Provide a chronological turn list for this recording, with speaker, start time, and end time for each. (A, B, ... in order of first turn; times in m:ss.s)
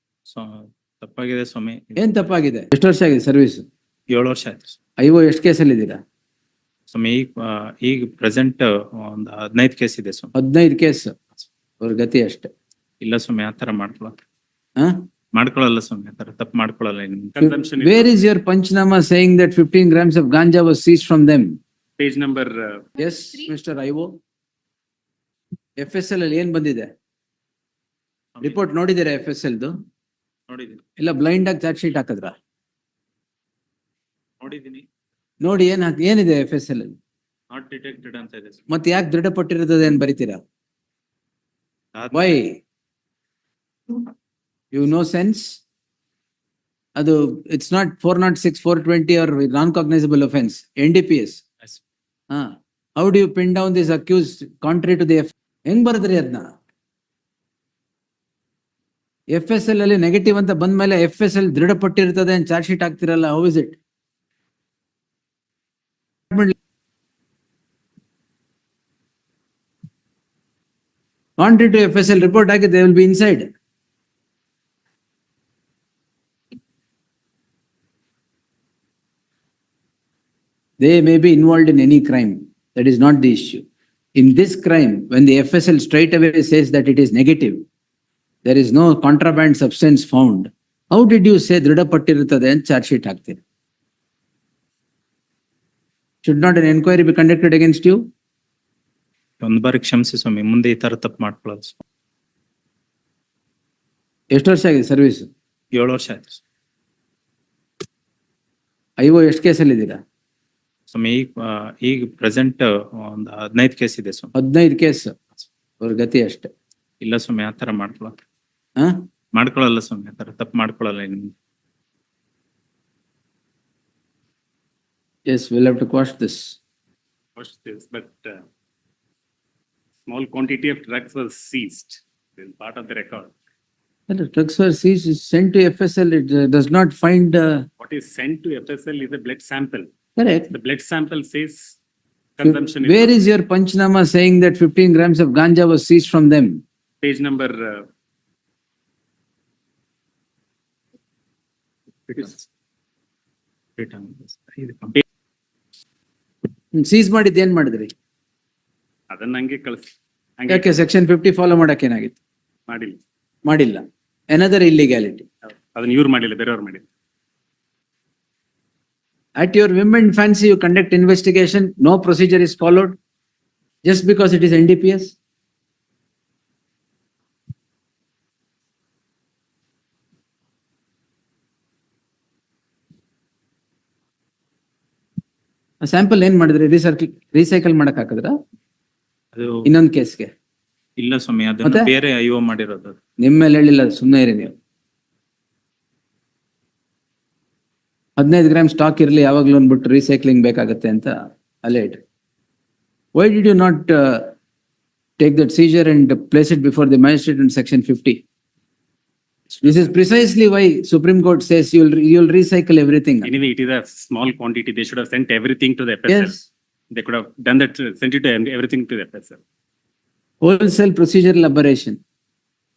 0:00.2-0:02.1 A
0:02.0-0:03.7 B
0:04.1-0:04.8 A
0:05.0-0:06.0 B
0:06.9-0:10.3 A
0:10.4-0:11.2 B
0:11.8-0:12.5 B
0:13.0-0:14.1 A
0:14.8-0:15.0 B
0:15.3-0:17.4 A
0:17.4-0:18.2 C
0:17.4-0:21.6 B
0:22.0-0:22.9 C
0:23.0-0:24.2 B
0:25.8-0:26.9 B
0:28.4-0:28.7 A
0:28.4-0:29.8 B
0:30.5-0:30.8 A
0:31.0-0:32.4 B
0:34.4-0:34.8 A
0:35.4-0:37.0 B
0:37.5-0:38.7 A
0:38.7-0:40.4 B
0:42.0-0:42.4 A
0:42.1-0:42.6 B
0:44.7-0:45.6 B
0:47.0-0:51.4 B
0:52.3-0:56.5 B
0:59.3-1:03.8 B
1:11.4-1:13.5 B
1:20.8-1:27.6 B
1:28.4-1:33.4 B
1:36.2-1:38.0 B
1:39.4-1:41.8 A
1:44.3-1:45.3 B
1:45.7-1:46.4 A
1:49.0-1:50.0 B
1:50.9-1:54.3 A
1:54.4-1:55.2 B
1:55.8-1:56.5 B
1:57.0-1:58.1 A
1:58.8-1:59.0 B
1:59.3-2:01.3 A
2:05.3-2:06.6 B
2:07.4-2:08.4 C
2:10.1-2:13.3 C
2:14.1-2:17.7 B
2:17.8-2:19.9 C
2:20.2-2:20.5 B
2:20.5-2:21.8 C
2:22.4-2:23.3 C
2:22.4-2:26.6 B
2:27.0-2:27.9 C
2:32.1-2:32.4 A
2:33.8-2:35.0 A
2:36.7-2:37.9 B
2:39.1-2:40.8 C
2:40.5-2:42.2 B
2:42.7-2:43.0 C
2:43.4-2:45.3 B
2:45.5-2:46.8 C
2:49.4-2:53.0 B
2:53.8-2:55.2 B
3:05.8-3:08.4 B
3:09.3-3:09.7 A
3:09.6-3:10.3 B
3:11.0-3:13.0 A
3:11.6-3:11.9 B
3:13.2-3:14.6 B
3:18.2-3:22.0 B
3:23.1-3:24.3 B
3:25.2-3:28.2 B
3:29.6-3:33.3 B
3:33.2-3:36.4 C
3:36.1-3:36.4 B
3:36.9-3:39.4 C
3:40.4-3:42.0 B